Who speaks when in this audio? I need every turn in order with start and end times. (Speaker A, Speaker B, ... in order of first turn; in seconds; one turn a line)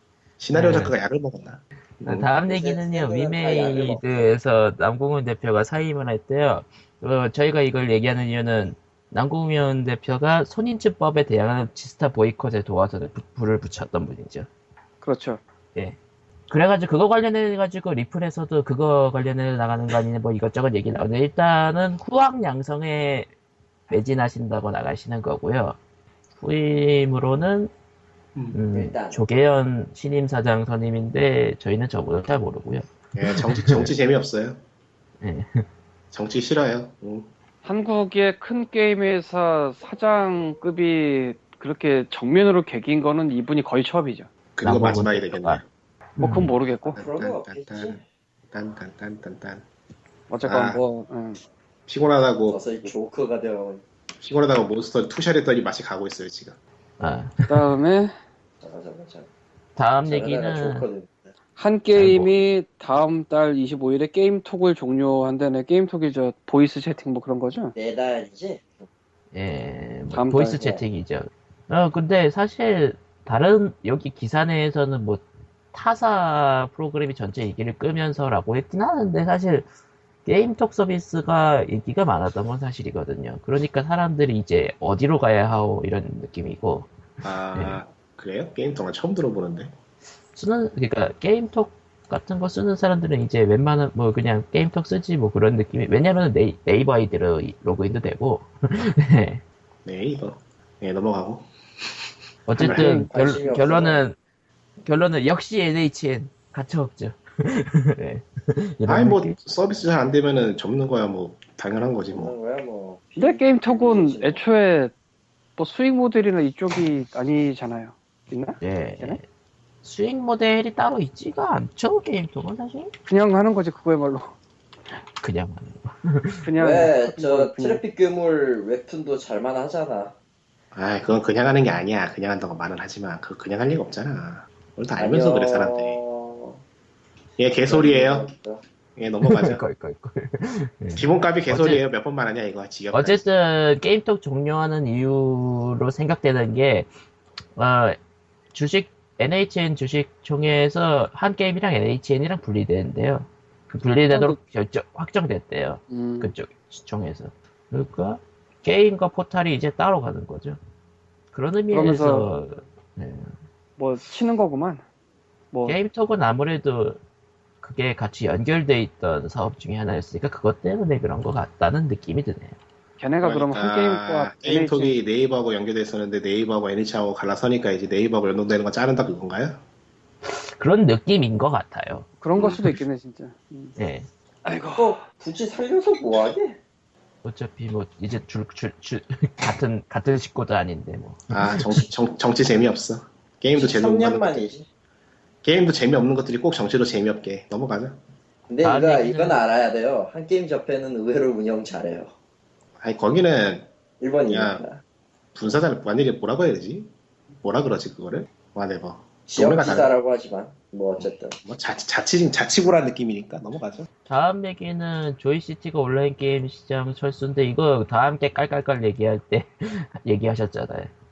Speaker A: 0.4-2.3
Speaker B: 0.5-0.9
Speaker B: 2.0-14.5
Speaker C: 2.4-4.1
Speaker D: 15.0-15.4
Speaker B: 16.5-23.3
Speaker B: 23.9-25.8
Speaker B: 26.4-27.7
Speaker B: 28.5-33.9
Speaker C: 28.7-29.2
Speaker A: 33.1-34.6
Speaker B: 35.2-35.6
Speaker A: 36.1-37.3
Speaker D: 37.6-44.3
Speaker A: 44.6-45.6
Speaker B: 44.6-45.6
Speaker B: 46.2-46.5
Speaker D: 46.2-47.0
Speaker A: 46.9-48.0
Speaker C: 47.0-48.0
Speaker A: 48.5-49.6
Speaker D: 50.3-51.4
Speaker A: 50.4-50.8
Speaker A: 51.9-52.6
Speaker C: 52.5-53.8
Speaker A: 54.2-56.6
Speaker B: 57.0-57.7
Speaker D: 57.5-58.1
Speaker C: 58.6-59.3
Speaker B: 59.8-60.9
Speaker C: 60.0-61.3
Speaker D: 61.6-67.8
Speaker B: 62.0-62.3
Speaker C: 67.8-68.8
Speaker B: 69.3-79.7
Speaker D: 70.1-70.6
Speaker C: 70.5-70.8
Speaker B: 80.3-86.9
Speaker A: 87.2-89.7
Speaker B: 87.5-87.8
Speaker B: 90.3-99.4
Speaker A: 99.8-101.5
Speaker B: 102.5-104.2
Speaker D: 102.6-103.1
Speaker C: 103.1-104.0
Speaker B: 104.8-109.4
Speaker A: 108.9-112.3
Speaker C: 112.1-114.4
Speaker D: 113.2-114.9
Speaker D: 115.6-119.2
Speaker B: 118.6-119.2
Speaker B: 119.8-122.9
Speaker D: 123.0-124.3
Speaker B: 125.2-126.5
Speaker D: 126.4-127.8
Speaker C: 126.6-130.1
Speaker A: 130.7-136.0
Speaker C: 135.0-136.6
Speaker A: 137.4-138.3
Speaker C: 137.5-138.6
Speaker A: 138.9-139.6
Speaker B: 139.2-141.8
Speaker A: 140.9-143.2
Speaker B: 142.9-146.9
Speaker B: 147.6-148.0
Speaker B: 148.5-160.6
Speaker D: 154.1-154.4
Speaker D: 155.9-156.3
Speaker B: 161.3-163.3
Speaker D: 161.7-162.3
Speaker D: 163.8-164.8
Speaker B: 165.7-167.0
Speaker B: 167.6-172.6
Speaker D: 173.0-174.9
Speaker A: 173.2-179.6
Speaker B: 180.2-182.8
Speaker D: 182.2-183.7
Speaker B: 183.8-184.1
Speaker D: 184.4-185.0
Speaker C: 184.8-186.6
Speaker B: 187.2-191.9
Speaker A: 191.3-194.5
Speaker C: 193.6-194.7
Speaker A: 195.4-198.0
Speaker C: 198.5-202.1
Speaker B: 198.6-199.4
Speaker A: 202.8-203.7
Speaker C: 204.0-204.8
Speaker A: 204.3-204.6
Speaker A: 205.3-206.9
Speaker A: 207.4-209.9
Speaker C: 209.3-211.4
Speaker A: 211.0-213.9
Speaker B: 214.1-220.9